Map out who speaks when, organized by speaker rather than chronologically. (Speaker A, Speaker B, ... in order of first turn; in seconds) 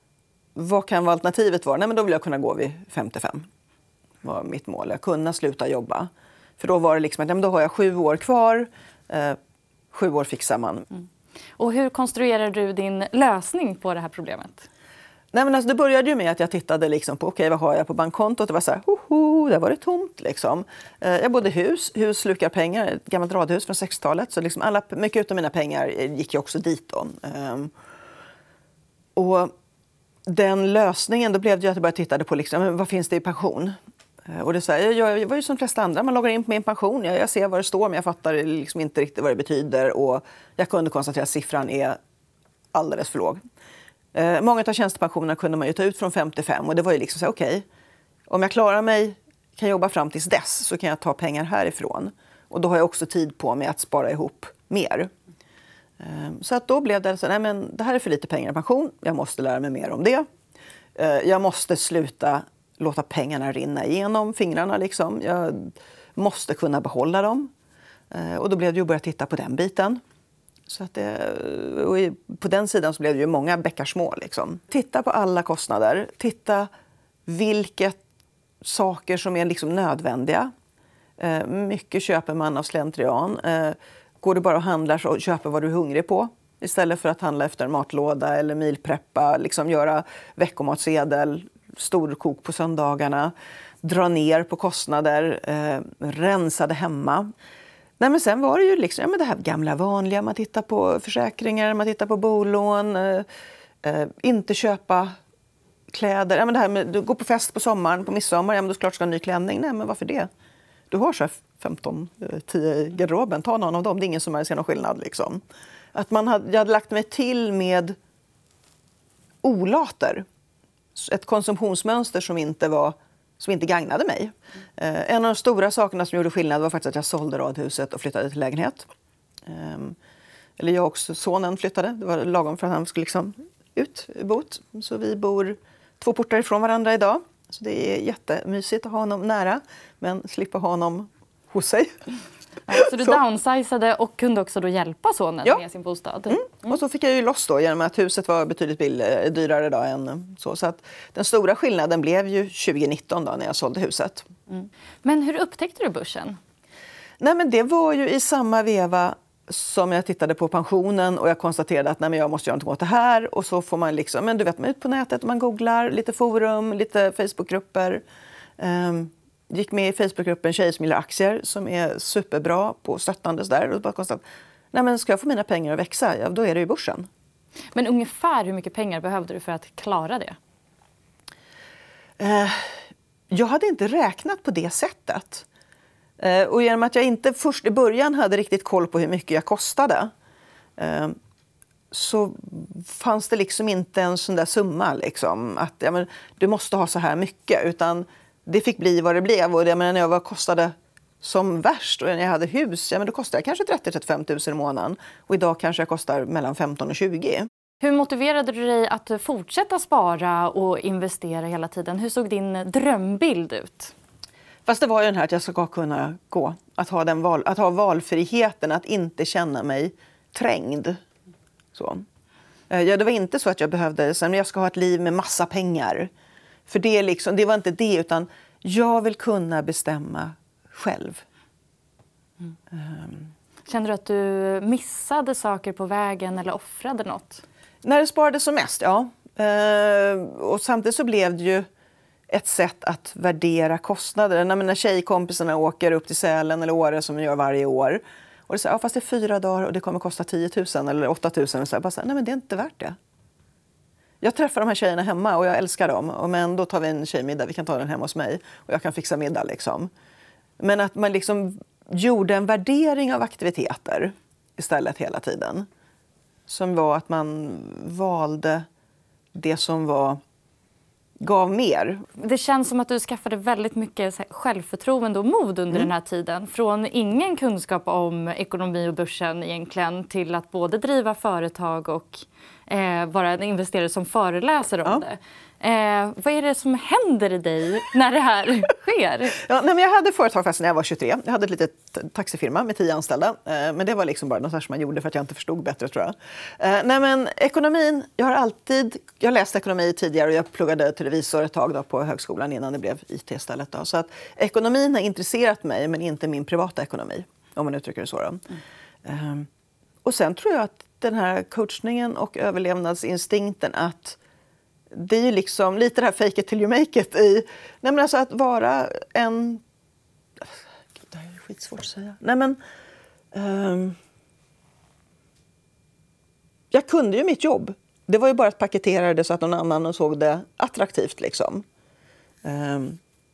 Speaker A: 0.5-3.5, 4.2-9.4, 9.9-10.9, 15.3-27.7, 29.1-29.5, 30.2-33.7, 34.3-42.0, 42.7-43.4, 44.1-47.6, 48.3-55.1, 56.0-60.2, 61.0-67.5, 68.1-70.0, 70.7-76.7, 77.2-78.0, 78.6-80.5, 81.2-97.3, 98.0-103.2, 103.8-105.1, 105.9-110.3, 110.9-115.4, 115.9-118.0, 119.4-120.2, 120.9-128.9, 129.4-130.0, 130.6-142.0, 142.7-143.1, 146.3-154.3, 157.2-168.0, 168.6-177.1, 182.2-185.4, 186.2-190.1, 190.8-191.1, 191.9-207.5, 214.7-221.0, 221.7-222.0, 222.7-226.1, 226.7-231.2, 232.7-233.3, 237.8-241.7, 242.3-252.9, 254.2-259.9, 260.6-265.6, 266.5-268.6, 269.3-270.2, 271.2-272.1, 289.4-308.4, 309.0-309.5, 310.0-314.2, 314.9-319.6, 320.4-322.6, 323.3-323.9, 326.7-331.6, 332.4-333.0
Speaker B: 11.6-14.7, 142.7-146.8, 155.0-156.4, 177.7-180.4, 207.8-213.9, 233.7-237.4, 272.2-289.4